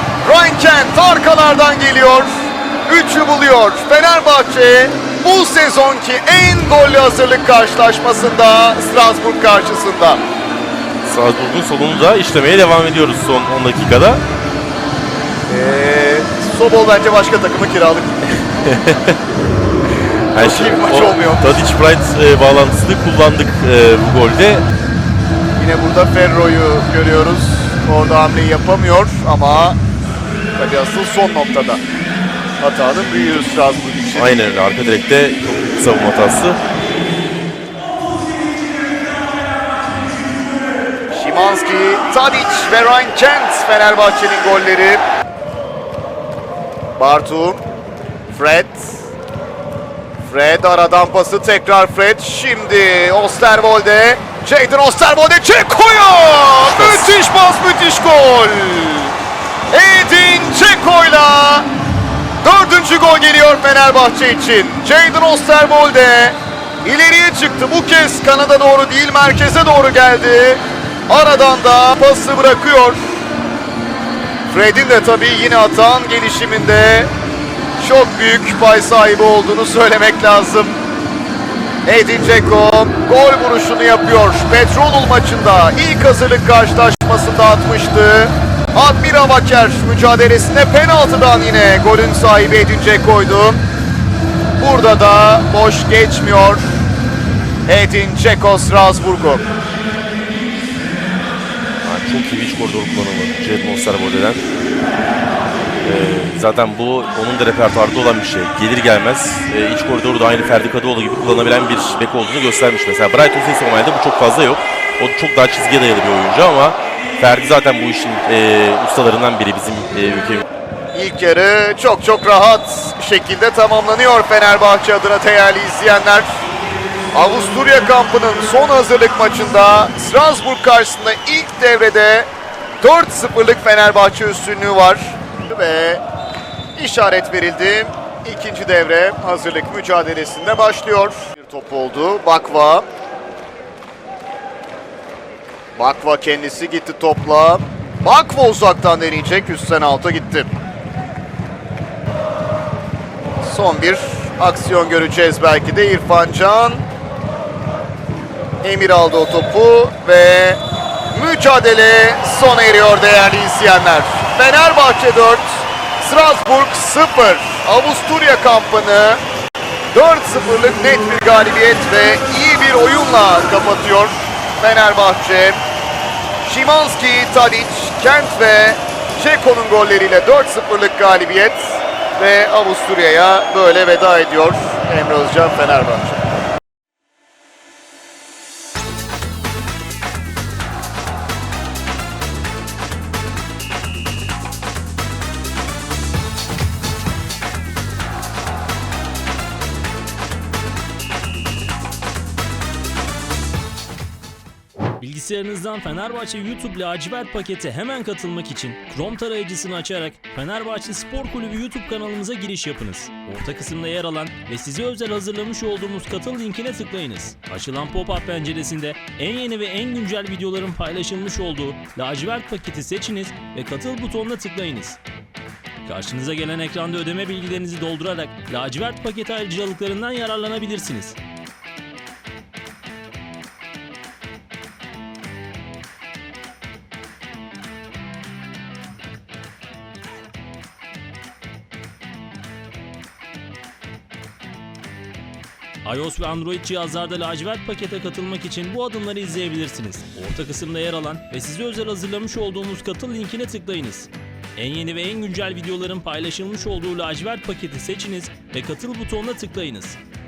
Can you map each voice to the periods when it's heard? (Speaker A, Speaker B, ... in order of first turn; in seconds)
Speaker A: 0.2-10.2, 15.5-18.4, 20.3-21.6, 25.6-29.8, 30.6-31.8, 32.6-34.3, 41.1-45.0, 47.0-47.6, 48.3-49.0, 50.2-59.1, 59.7-61.7, 62.4-73.0, 74.5-77.1, 77.8-80.8, 81.8-93.6, 94.6-96.6, 97.7-99.5, 120.9-126.4, 127.1-136.0, 136.8-142.9, 145.8-150.5, 153.4-156.9, 158.6-169.2, 169.9-175.6, 176.4-186.2
Speaker B: 11.0-14.2, 18.6-19.2, 20.3-24.6, 34.1-36.6, 56.8-57.1, 101.8-104.4, 105.8-120.4
Speaker C: 205.0-225.0, 225.8-231.2, 245.8-260.0